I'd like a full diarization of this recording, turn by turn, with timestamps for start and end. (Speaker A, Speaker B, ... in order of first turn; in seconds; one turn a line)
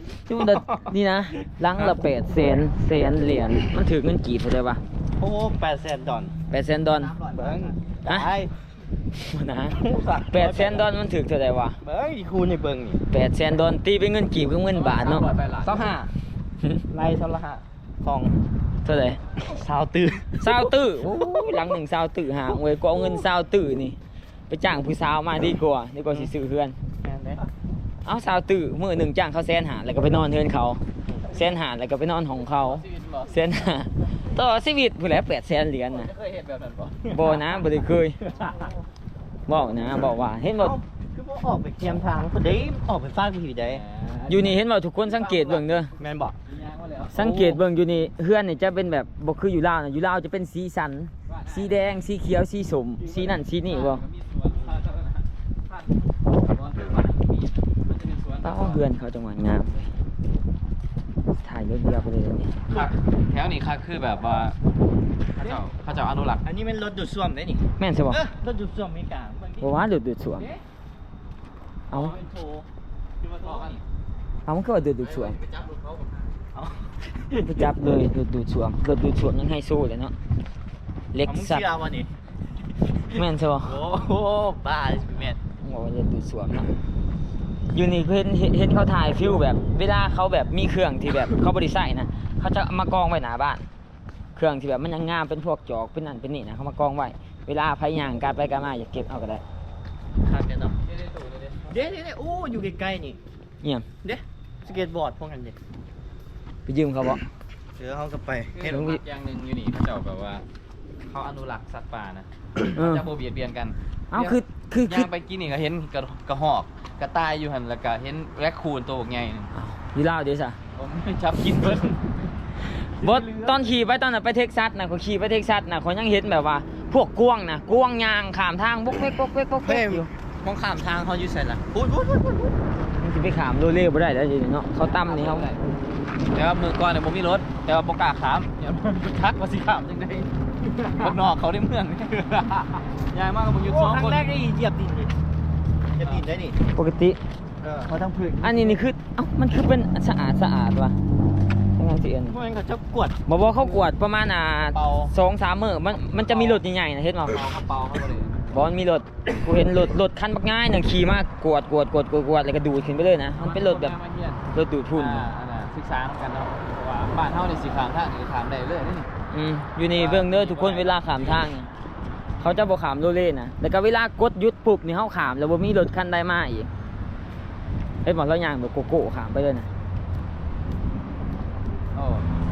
Speaker A: 0.3-4.8
Speaker B: 0.4-0.7
Speaker B: 5.2-6.3
Speaker A: 6.5-7.2
Speaker B: 7.0-8.5
Speaker A: 8.1-8.3
Speaker A: 9.1-11.8
Speaker B: 9.8-10.9
Speaker B: 11.8-13.0
Speaker A: 13.1-15.3
Speaker C: 14.7-16.1
Speaker B: 15.6-16.1
Speaker B: 16.9-18.4
Speaker A: 18.9-19.2
Speaker B: 19.4-21.5
Speaker A: 20.4-24.0
Speaker A: 24.5-26.8
Speaker B: 27.0-27.4
Speaker A: 28.1-36.1
Speaker C: 32.6-33.3
Speaker C: 35.9-37.2
Speaker A: 37.1-38.2
Speaker A: 39.5-40.8
Speaker B: 40.6-43.8
Speaker C: 43.7-45.7
Speaker A: 44.3-45.9
Speaker B: 46.0-46.4
Speaker C: 46.5-47.2
Speaker A: 47.1-54.0
Speaker B: 47.2-47.6
Speaker C: 51.3-51.8
Speaker C: 53.0-55.2
Speaker C: 56.4-58.8
Speaker A: 58.4-59.9
Speaker A: 61.4-62.6
Speaker B: 62.7-62.9
Speaker C: 62.7-64.6
Speaker C: 65.3-66.4
Speaker B: 66.4-69.8
Speaker A: 67.8-68.2
Speaker A: 69.6-70.5
Speaker A: 71.9-72.2
Speaker B: 71.9-72.7
Speaker C: 73.2-73.8
Speaker B: 73.4-73.8
Speaker A: 74.5-75.4
Speaker C: 75.0-76.2
Speaker B: 76.5-77.7
Speaker A: 77.4-80.1
Speaker A: 81.1-81.7
Speaker B: 81.2-82.1
Speaker A: 83.1-83.8
Speaker B: 83.6-85.4
Speaker A: 85.6-86.7
Speaker A: 87.7-93.7
Speaker A: 94.3-99.4
Speaker B: 100.2-100.8
Speaker C: 100.8-101.8
Speaker B: 101.7-103.2
Speaker A: 103.6-103.9
Speaker B: 104.0-105.6
Speaker A: 106.7-107.3
Speaker B: 107.8-108.7
Speaker C: 108.5-110.5
Speaker A: 108.7-109.0
Speaker C: 111.1-119.5
Speaker A: 112.7-113.1
Speaker A: 114.1-115.1
Speaker A: 119.5-120.6
Speaker C: 120.8-122.0
Speaker A: 122.7-130.1
Speaker C: 123.0-123.5
Speaker B: 129.6-132.6
Speaker A: 133.0-135.5
Speaker C: 135.0-135.6
Speaker C: 136.3-140.3
Speaker B: 140.7-141.3
Speaker C: 140.9-144.3
Speaker B: 143.6-145.1
Speaker B: 146.0-146.6
Speaker A: 146.7-147.2
Speaker B: 147.6-148.8
Speaker A: 148.4-151.0
Speaker A: 151.8-152.4
Speaker B: 152.3-153.2
Speaker A: 153.3-157.4
Speaker B: 154.7-155.1
Speaker C: 156.3-156.6
Speaker C: 157.3-158.5
Speaker A: 158.5-163.9
Speaker C: 163.4-169.1
Speaker A: 164.5-165.3
Speaker A: 169.3-171.7
Speaker C: 169.9-171.4
Speaker A: 172.4-176.7
Speaker A: 178.1-179.7
Speaker C: 181.9-182.3